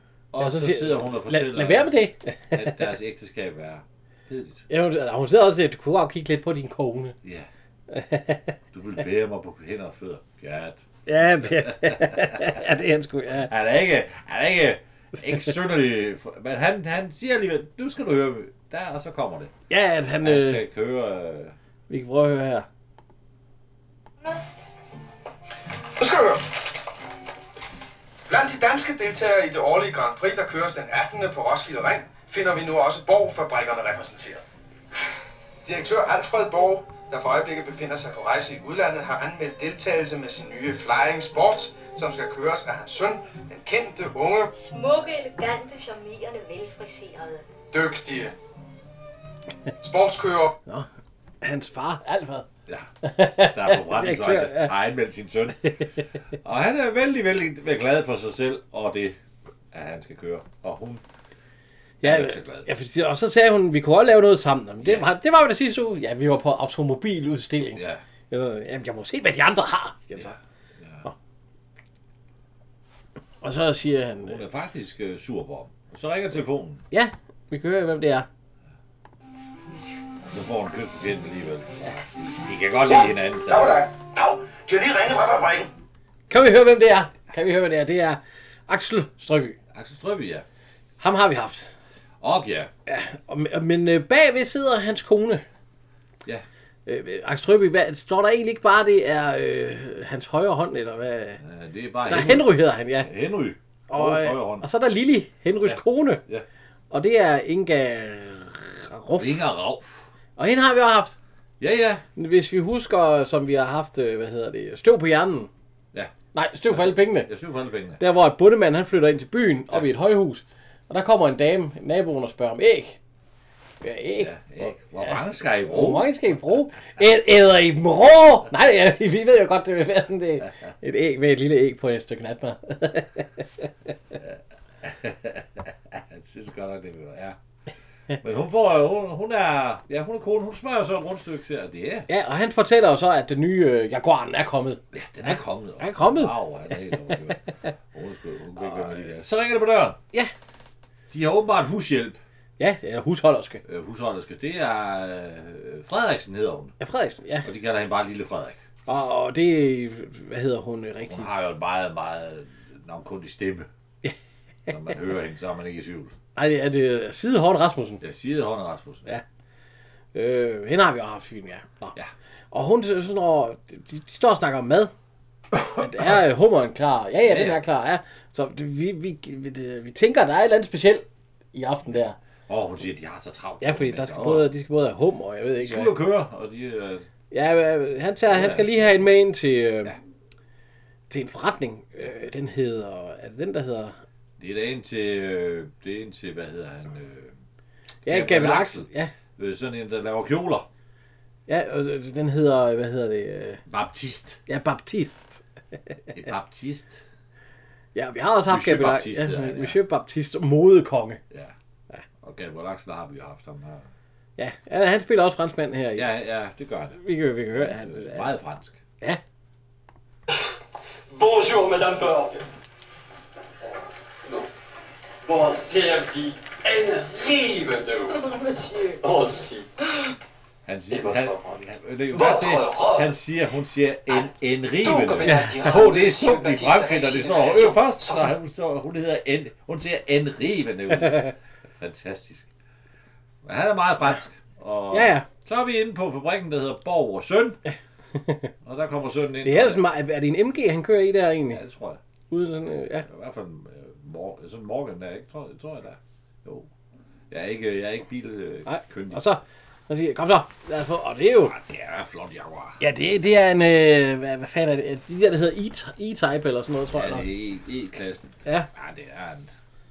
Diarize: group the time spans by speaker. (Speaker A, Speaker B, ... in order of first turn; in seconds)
Speaker A: 0.3-2.0, 2.5-4.6, 8.7-10.8, 11.4-12.6, 13.3-19.5, 20.2-21.5, 52.7-55.7, 56.4-59.2, 59.7-61.0, 62.0-62.7, 64.8-65.1, 67.7-68.0, 70.1-71.1, 74.2-76.8, 80.3-83.8, 89.7-90.4, 92.2-92.7, 101.4-104.7, 105.6-106.4, 109.2-110.1, 111.6-112.0, 116.7-118.0, 124.2-127.0, 134.2-137.4, 138.2-142.1, 144.9-150.0, 151.1-152.2, 153.6-156.7, 157.4-158.6, 161.1-163.7, 164.7-166.1, 168.0-169.1, 177.2-177.6, 182.5-184.5, 185.6-187.1, 188.3-189.1, 194.4-197.3, 198.1-200.7, 203.7-204.4, 206.1-207.0, 208.5-209.8, 212.2-213.9, 215.9-218.8, 230.7-242.5, 243.4-247.6, 248.6-249.8, 251.5-252.0, 253.0-256.7, 257.3-259.2, 261.4-262.8, 266.9-269.5
Speaker B: 0.4-2.8, 4.7-7.2, 7.9-8.5, 11.1-13.5, 19.7-20.6, 21.9-22.7, 51.4-52.5, 53.0-54.7, 62.0-70.4, 73.4-74.4, 76.9-78.3, 86.3-89.6, 91.0-91.7, 92.9-95.4, 96.8-101.4, 102.1-103.1, 103.9-106.2, 106.9-109.4, 110.3-111.1, 112.2-115.5, 116.3-117.3, 118.0-123.0, 123.8-134.1, 142.1-146.3, 148.6-149.0, 152.6-153.6, 156.8-157.4, 158.9-161.3, 166.3-168.0, 170.1-171.9, 172.5-174.9, 175.7-182.2, 183.6-185.9, 187.3-189.9, 191.1-194.0, 198.1-199.1, 201.5-203.6, 204.5-205.9, 207.9-211.2, 214.4-216.1, 217.0-218.4, 235.2-235.5, 241.1-241.3, 244.9-245.3, 248.2-248.5, 249.4-251.6, 252.3-253.1, 258.6-261.5, 262.8-267.3
Speaker C: 26.0-26.4, 28.3-34.4, 35.6-44.5, 47.7-48.3, 49.8-50.5, 82.9-85.7
Speaker D: 44.6-47.4
Speaker E: 221.1-222.4, 224.2-224.5, 225.2-228.2, 229.0-229.7, 230.9-231.6, 232.1-233.1, 234.8-238.3